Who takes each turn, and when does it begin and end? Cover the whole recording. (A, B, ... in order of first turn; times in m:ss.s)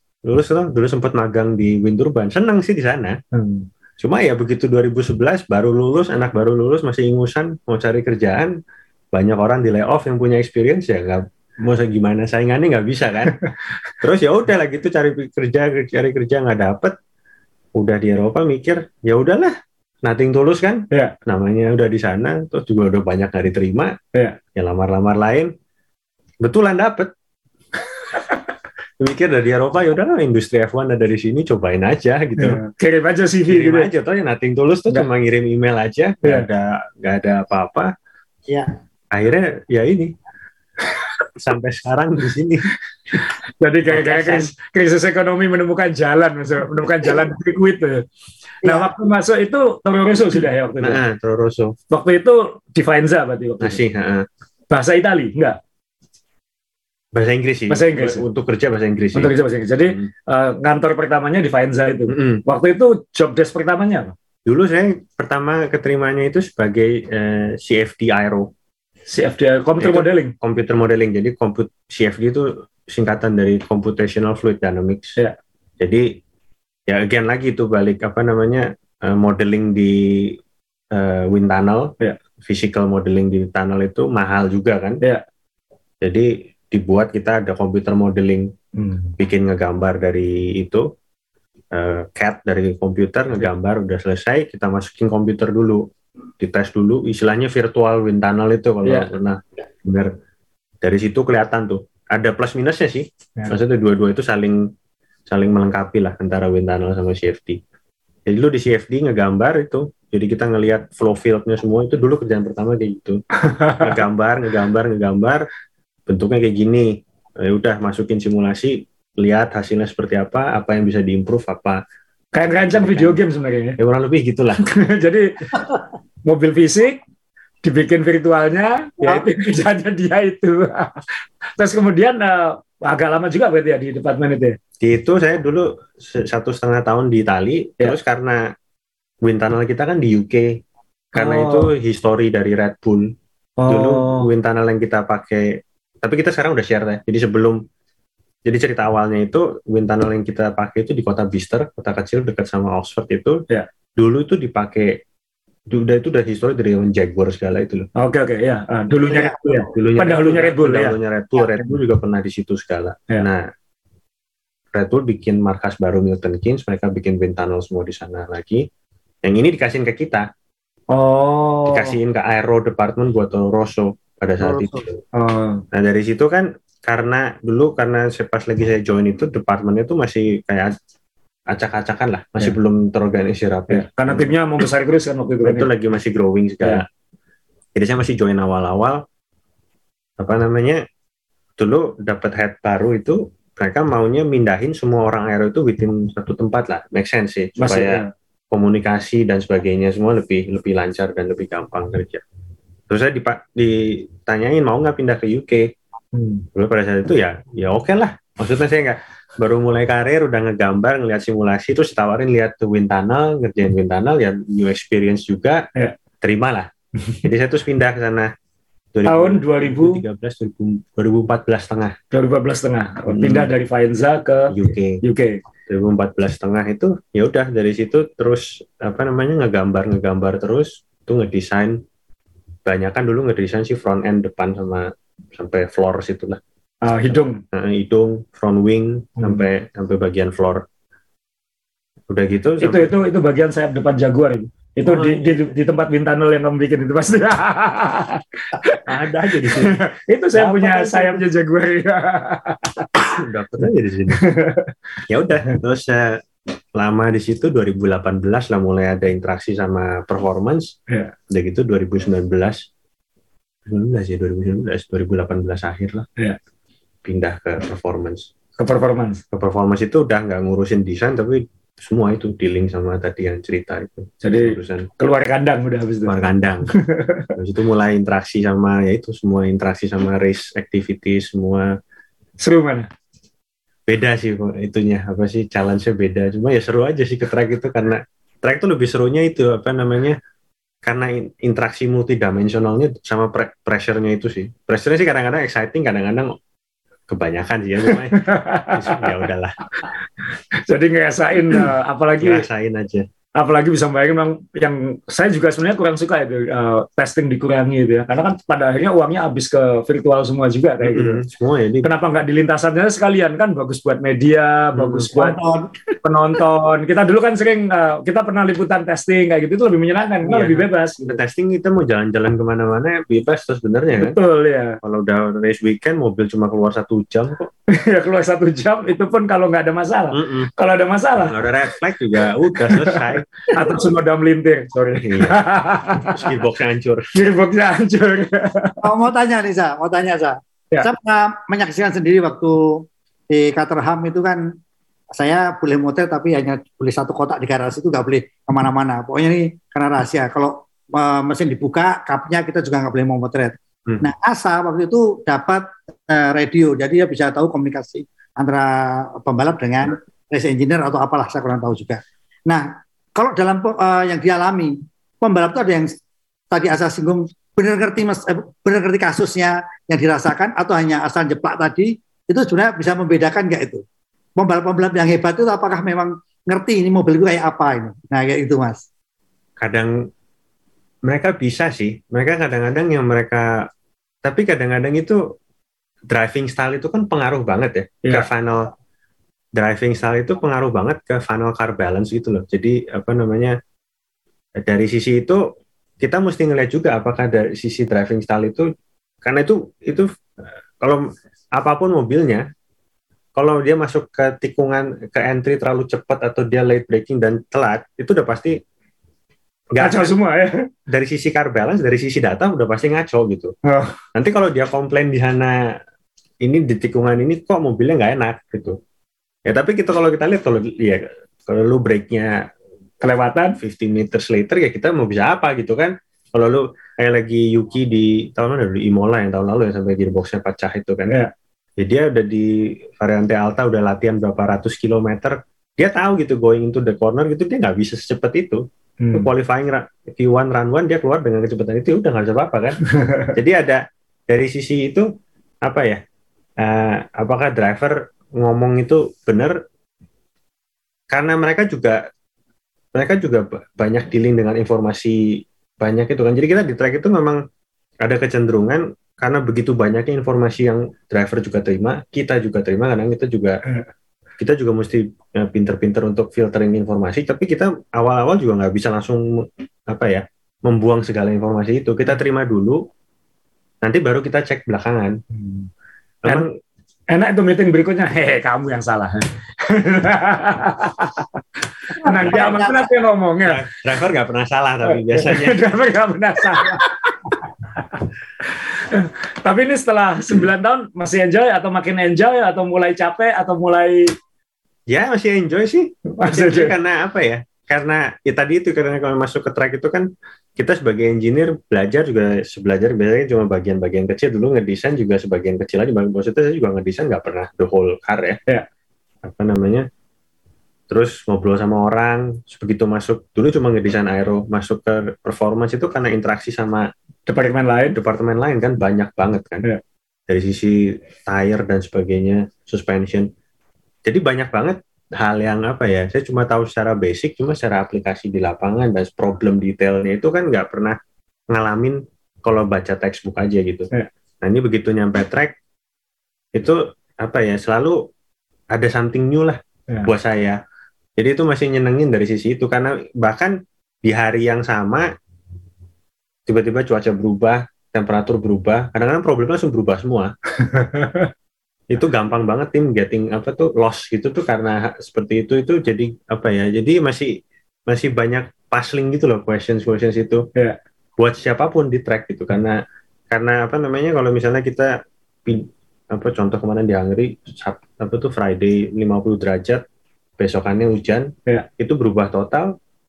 0:00.2-0:03.2 A
0:03.3-0:03.7 B
0:04.0-0:08.6 A
0:09.1-0:13.4 A
0:14.0-0:16.9 A
0:17.8-0:24.0 A
0:24.6-0:25.5 A
0:26.4-0:27.1 A
0:29.0-0:32.6 A
0:32.4-0:33.9 B
0:33.5-0:37.9 A
0:39.1-0:40.1 A
0:41.3-0:43.2 A
0:43.1-0:48.0 B
0:43.9-0:44.5 A
0:48.6-0:48.9 C
0:48.6-0:51.0 B
0:50.8-0:51.8 A
0:51.9-0:53.8 B
0:53.6-0:54.2 A
0:54.7-0:55.6 B
0:57.1-0:59.3 A
0:57.7-0:58.2 B
0:59.1-1:04.1 B
1:02.1-1:02.4 A
1:04.5-1:08.5 A
1:09.1-1:10.3 B
1:09.8-1:15.2 A
1:15.8-1:16.0 A
1:16.9-1:20.4 A
1:20.9-1:25.0 A
1:26.0-1:28.5 A
1:28.8-1:29.1 B
1:29.2-1:30.8 A
1:31.7-1:35.8 A
1:36.4-1:40.1 A
1:40.8-1:44.7 A
1:45.3-1:47.6 A
1:48.3-1:53.2 A
1:53.4-1:54.0 B
1:53.8-1:55.4 A
1:56.1-2:01.8 A
2:02.3-2:03.8 B
2:02.4-2:03.2 A
2:03.8-2:04.6 A
2:04.6-2:05.5 B
2:06.2-2:07.0 B
2:07.6-2:14.6 B
2:14.8-2:18.4 A
2:19.2-2:20.5 A
2:21.1-2:23.1 A
2:21.2-2:21.7 B
2:23.6-2:24.3 B
2:23.7-2:27.6 A
2:28.4-2:33.4 A
2:34.0-2:35.0 A
2:35.7-2:37.9 A
2:38.0-2:41.0 B
2:39.0-2:39.5 C
2:39.7-2:43.5 A
2:44.7-2:48.6 A
2:49.2-2:50.2 A
2:50.9-2:51.9 B
2:51.7-2:55.0 A
2:54.4-2:54.8 C
2:55.1-2:55.6 B
2:55.7-3:00.7 A
3:01.5-3:04.3 A
3:03.7-3:05.7 B
3:05.4-3:06.8 A
3:07.7-3:09.0 A
3:10.2-3:10.8 A
3:11.6-3:22.2 A
3:17.6-3:18.1 B
3:22.9-3:25.7 A
3:26.1-3:26.4 B
3:26.5-3:35.7 A
3:36.2-3:36.7 A
3:37.2-3:38.3 A
3:38.9-3:42.0 A
3:39.0-3:40.0 B
3:42.1-3:45.4 B
3:43.1-3:43.5 A
3:44.5-3:45.0 A
3:45.7-3:51.8 A
3:52.6-3:56.4 A
3:56.8-3:57.4 B
3:57.1-4:00.6 A
3:59.2-3:59.4 B
4:02.1-4:02.9 A
4:02.6-4:08.8 B
4:04.8-4:05.4 A
4:08.8-4:09.8 A
4:09.4-4:13.0 B
4:10.3-4:11.2 A
4:13.1-4:14.2 A
4:14.1-4:14.7 B
4:15.1-4:16.1 A
4:16.7-4:20.7 A
4:21.3-4:22.6 A
4:23.6-4:26.1 A
4:27.0-4:28.3 A
4:28.6-4:29.2 B
4:29.3-4:34.9 A
4:34.2-4:36.1 B
4:36.1-4:36.7 A
4:36.6-4:37.3 B
4:37.4-4:41.7 A
4:42.4-4:42.9 B
4:43.9-4:50.2 A
4:50.8-4:56.3 A
4:57.1-4:59.7 A
4:57.9-4:59.2 B
5:00.5-5:02.4 B
5:02.2-5:03.0 A
5:03.4-5:11.2 B
5:10.8-5:11.9 A
5:11.8-5:15.4 B
5:14.8-5:15.1 A
5:15.1-5:15.8 C
5:16.0-5:21.0 B
5:20.2-5:24.2 A
5:23.9-5:24.8 B
5:24.8-5:27.5 A
5:27.7-5:31.4 B
5:30.1-5:30.5 A
5:31.2-5:33.4 A
5:32.5-5:36.3 B
5:35.0-5:37.1 A
5:37.1-5:38.9 B
5:38.8-5:44.4 C
5:45.2-6:05.9 C
6:06.5-6:13.8 C
6:14.4-6:18.8 C
6:19.6-6:20.0 A
6:21.0-6:23.6 A
6:24.2-6:25.2 A
6:26.1-6:28.7 A
6:29.6-6:33.6 A
6:34.6-6:35.4 A
6:36.0-6:38.7 A
6:39.2-6:40.1 A
6:40.8-6:42.4 A
6:43.4-6:48.6 A
6:49.7-6:50.1 A
6:49.8-6:50.5 B
6:50.9-6:53.5 A
6:53.6-6:54.0 B
6:54.1-6:55.7 A
6:56.4-6:58.8 A
6:59.5-7:02.4 A
7:03.0-7:03.6 B
7:03.6-7:11.2 A
7:11.8-7:22.8 A
7:19.0-7:19.3 B
7:22.9-7:23.4 B
7:23.3-7:25.1 A
7:25.6-7:26.0 A
7:26.6-7:29.6 A
7:31.1-7:32.0 A
7:32.9-7:37.4 A
7:38.0-7:43.6 A
7:44.4-7:52.8 A
7:53.8-7:55.2 A
7:55.3-7:55.7 B
7:56.2-7:56.5 A
7:57.1-8:01.4 B
8:01.9-8:03.6 B
8:01.9-8:02.9 C
8:03.4-8:05.6 A
8:04.9-8:14.1 B
8:14.9-8:28.4 A
8:16.2-8:16.7 B
8:29.2-8:29.8 A
8:30.9-8:36.9 A
8:37.3-8:38.0 B
8:37.9-8:39.7 A
8:40.3-8:43.3 A
8:44.0-8:51.0 A
8:51.5-8:53.9 A
8:54.4-8:55.5 A
8:56.5-8:58.0 A
8:58.7-9:00.6 A
9:01.2-9:05.1 A
9:06.5-9:10.3 A
9:10.6-9:11.3 B
9:11.9-9:17.3 A
9:17.9-9:20.4 A
9:21.2-9:22.8 A
9:23.3-9:29.8 A
9:30.4-9:32.7 A